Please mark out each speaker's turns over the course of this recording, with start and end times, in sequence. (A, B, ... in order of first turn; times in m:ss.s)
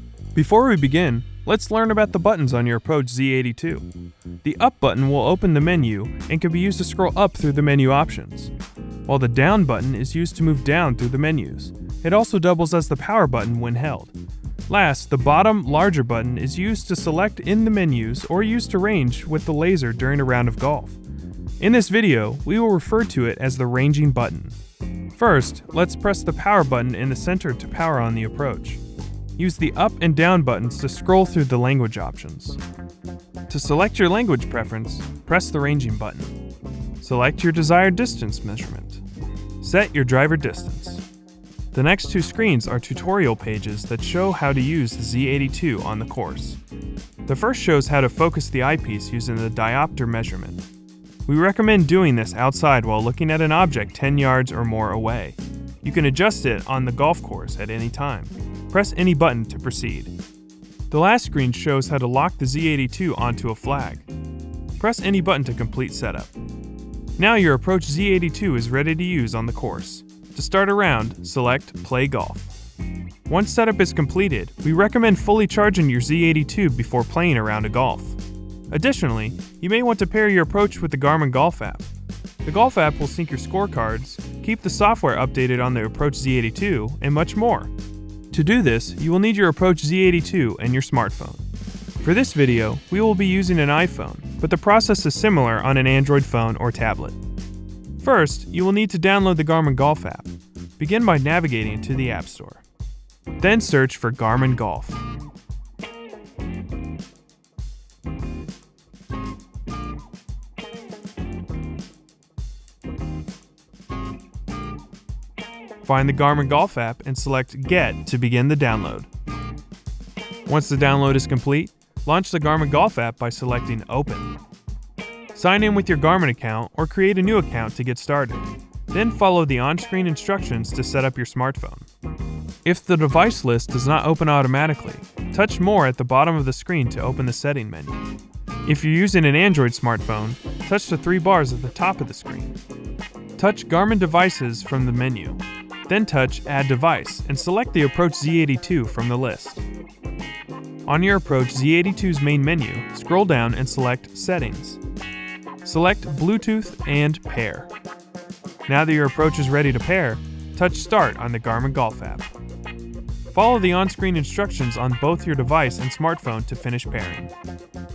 0:00.3-0:03.9 A
0:04.4-0:08.5 A
0:09.0-0:14.1 A
0:14.7-0:21.0 A
0:21.6-0:24.6 A
0:25.1-0:28.8 A
0:29.4-0:32.6 A
0:33.5-0:36.3 A
0:37.0-0:39.0 A
0:39.6-0:41.0 A
0:41.7-0:46.6 A
0:47.2-0:50.6 A
0:51.2-1:00.1 A
1:00.9-1:04.1 A
1:04.8-1:06.3 A
1:07.2-1:12.5 A
1:13.3-1:21.9 A
1:22.4-1:27.7 A
1:28.3-1:31.4 A
1:32.0-1:37.2 A
1:38.0-1:42.6 A
1:43.4-1:45.0 A
1:55.8-1:59.1 A
2:00.4-2:04.4 A
2:05.3-2:11.9 A
2:12.6-2:18.0 A
2:18.6-2:22.6 A
2:23.4-2:29.6 A
2:30.8-2:34.8 A
2:35.6-2:37.7 A
2:38.7-2:42.3 A
2:43.3-2:47.3 A